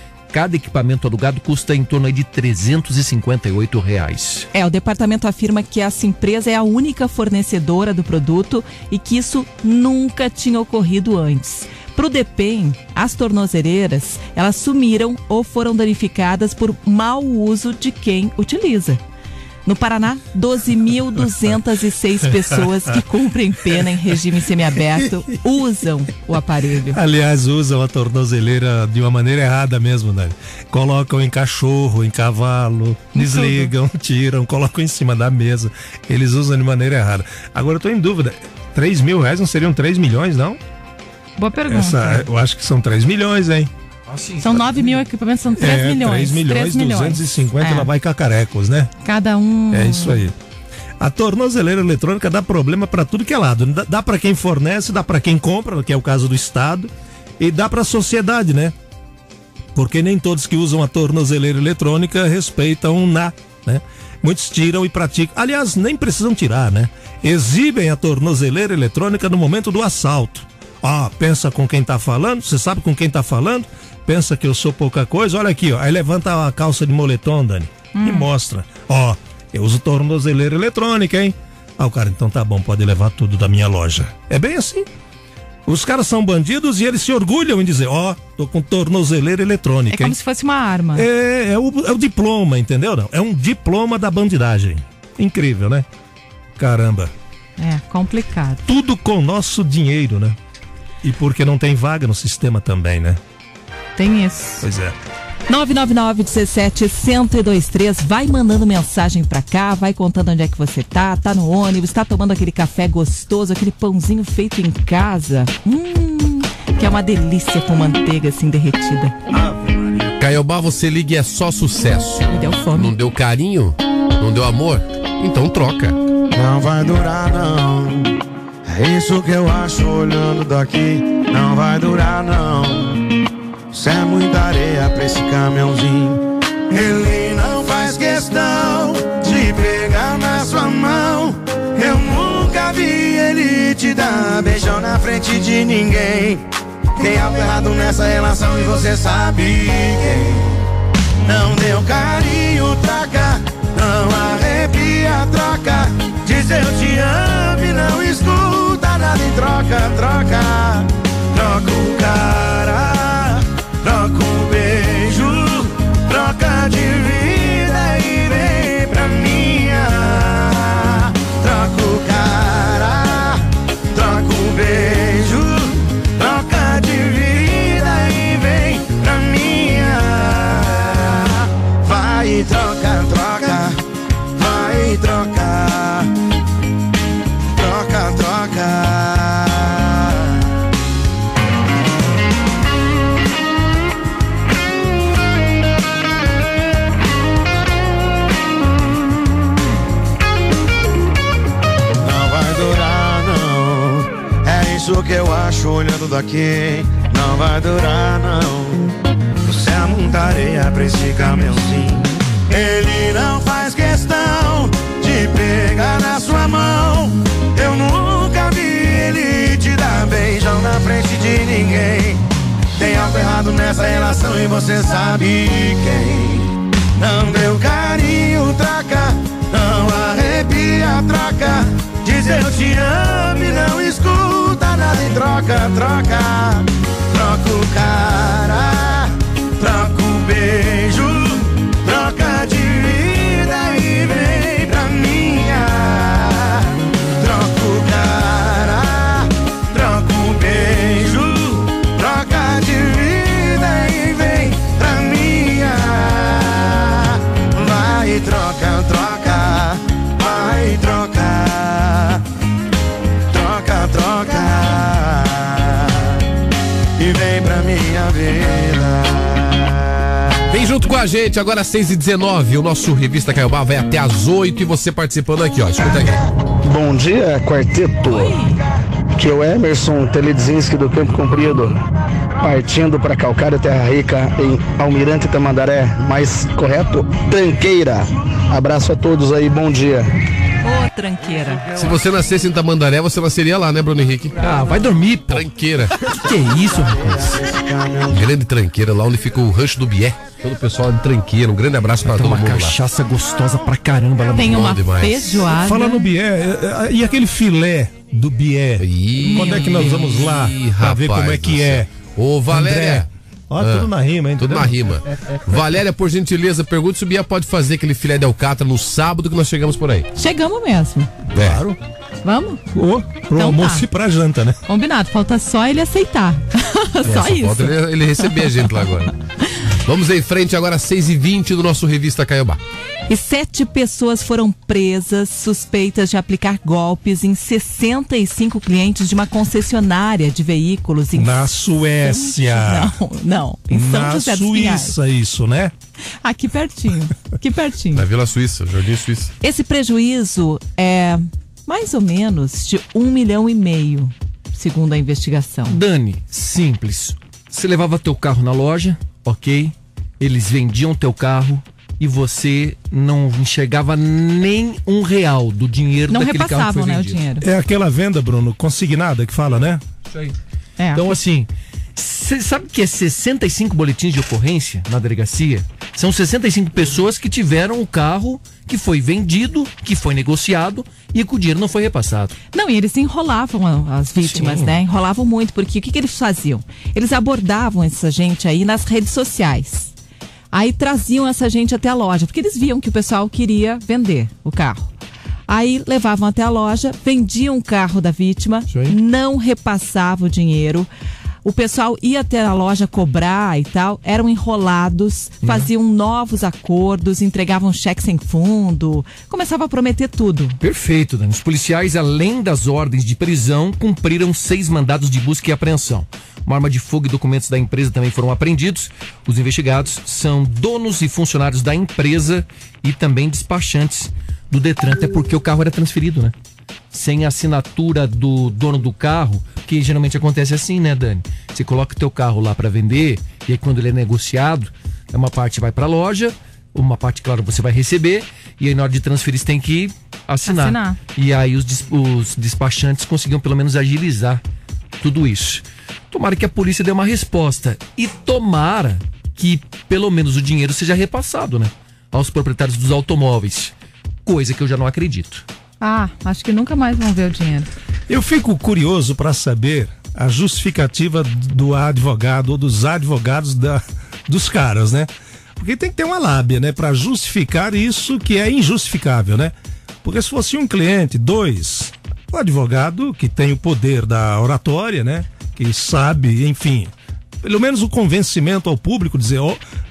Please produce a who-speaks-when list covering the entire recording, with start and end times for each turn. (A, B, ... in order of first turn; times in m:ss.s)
0:00.3-0:04.5 A
0:04.5-0:19.0 B
0:19.6-0:27.0 B
0:26.9-0:40.6 C
0:33.1-0:33.7 B
0:41.4-0:42.3 B
0:41.7-0:43.7 C
0:44.1-0:45.0 A
0:44.4-0:47.9 B
0:45.6-0:48.9 C
0:49.0-0:50.2 B
0:49.7-0:50.3 C
0:51.0-0:58.8 C
0:59.8-1:24.9 C
1:18.0-1:18.3 B
1:25.7-1:30.2 C
1:29.9-1:31.1 B
1:30.9-1:35.9 C
1:36.6-1:37.1 C
1:37.6-1:38.6 B
1:38.7-1:40.4 C
1:41.0-1:43.2 C
1:44.0-1:44.7 B
1:44.6-1:45.0 C
1:45.5-1:59.2 B
1:59.3-1:59.8 C
2:00.2-2:06.0 D
2:02.3-2:02.9 B
2:06.3-2:08.1 E
2:08.6-2:13.0 E
2:13.7-2:26.4 E
2:27.0-2:30.6 E
2:31.2-3:03.8 E
3:04.4-3:06.1 E
3:07.6-3:10.4 E
3:22.0-3:42.2 E
3:42.8-4:22.2 E
4:23.3-4:26.2 E
4:27.0-4:29.8 E
4:30.5-4:36.2 D
4:36.7-4:38.4 F
4:38.2-4:38.6 B
4:39.2-4:41.8 F
4:42.4-4:50.1 F
4:50.6-4:51.7 B
4:51.8-4:54.4 D
4:54.4-4:55.5 A
4:55.3-4:56.0 D
4:56.2-4:57.5 A
4:57.1-4:58.1 E
4:58.0-5:02.8 D
5:02.0-5:04.8 A
5:04.4-5:06.1 B
5:04.4-5:05.4 D
5:05.6-5:11.9 C
5:08.8-5:13.1 D
5:09.2-5:10.2 B
5:12.5-5:14.7 C
5:13.6-5:20.1 D
5:20.2-5:21.1 B
5:21.3-5:21.6 D
5:21.4-5:21.8 C
5:22.2-5:22.6 B
5:22.7-5:24.6 C
5:23.4-5:23.8 B
5:24.7-5:28.9 B
5:27.0-5:29.1 D
5:29.9-5:32.6 D
5:33.1-5:41.5 B
5:41.2-5:42.9 C
5:42.0-5:45.0 B
5:43.7-5:45.7 C
5:46.2-5:48.1 B
5:48.0-5:49.3 D
5:49.4-5:55.8 B
5:55.7-6:07.2 A
6:06.1-6:07.5 B
6:07.4-6:09.8 C
6:10.8-6:11.2 B
6:10.9-6:22.4 A
6:22.5-6:29.9 B
6:24.2-6:24.7 A
6:30.5-6:34.9 B
6:35.5-6:40.9 B
6:41.4-6:50.6 B
6:45.4-6:45.7 A
6:50.6-7:06.3 A
7:06.9-7:24.4 A
7:20.4-7:21.0 B
7:25.0-7:33.7 A
7:34.2-7:35.4 A
7:35.8-7:37.7 B
7:38.1-7:56.9 C
7:57.4-7:59.6 C